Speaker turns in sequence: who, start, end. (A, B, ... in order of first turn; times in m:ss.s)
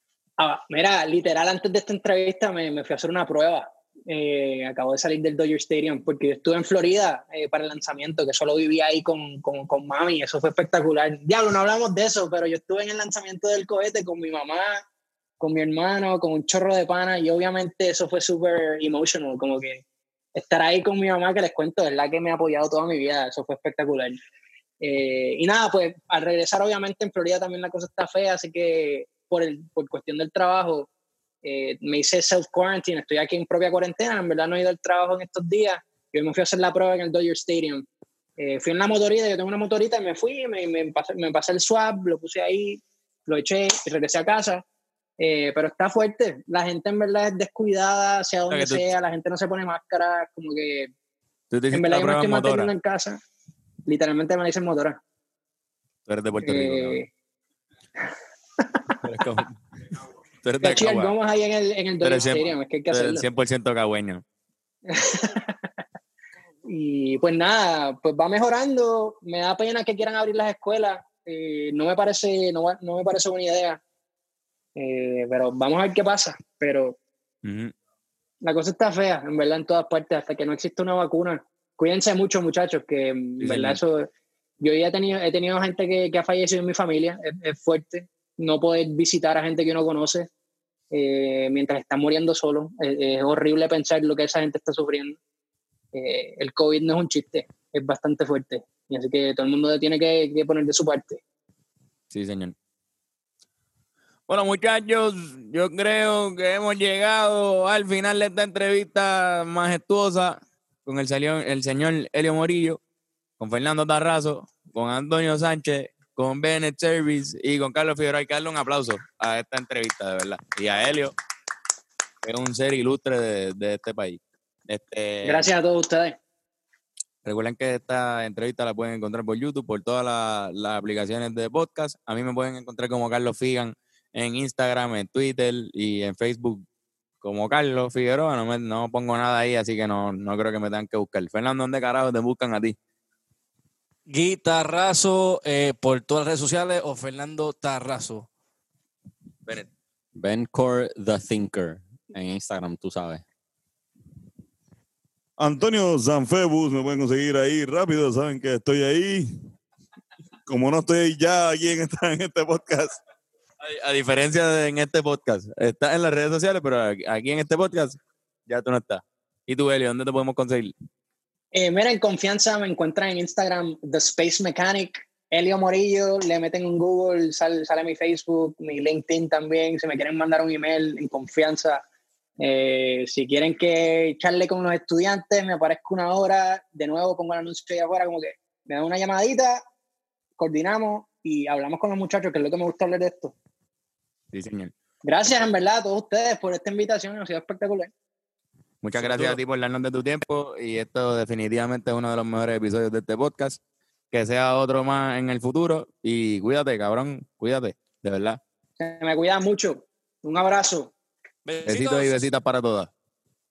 0:00.4-0:14.8 A
0:15.4-0:19.8 A
0:20.3-0:24.2 A
0:24.8-0:30.9 A
0:31.4-0:37.8 A
0:38.4-0:44.6 A
0:45.2-0:50.9 A
0:48.5-0:48.9 B
0:51.5-0:52.7 B
0:51.7-0:53.2 A
0:53.9-0:55.0 A
0:56.1-0:57.0 B
0:56.4-0:57.1 A
0:58.6-0:59.0 A
0:59.0-0:59.5 B
1:00.4-1:01.1 B
1:00.6-1:03.2 A
1:02.0-1:04.2 B
1:04.9-1:05.7 A
1:06.6-1:13.8 A
1:14.8-1:17.0 A
1:17.4-1:17.7 B
1:18.4-1:30.3 A
1:23.4-1:23.8 B
1:30.9-1:35.2 A
1:35.9-1:41.2 A
1:42.1-1:42.5 B
1:44.3-1:52.8 B
1:53.4-2:01.1 B
2:02.2-2:05.5 B
2:05.2-2:06.2 A
2:07.2-2:16.6 B
2:17.2-2:22.8 B
2:24.1-2:28.3 C
2:30.2-2:33.2 D
2:35.4-2:39.5 E
2:40.4-2:43.0 E
2:43.6-2:50.7 B
2:51.5-3:01.8 A
3:02.4-3:09.6 A
3:10.4-3:13.3 A
3:14.3-3:14.7 B
3:15.0-3:17.9 A
3:18.8-3:23.6 B
3:19.0-3:19.4 C
3:24.1-3:28.4 B
3:28.8-3:30.9 A
3:31.4-3:32.3 C
3:31.6-3:32.9 B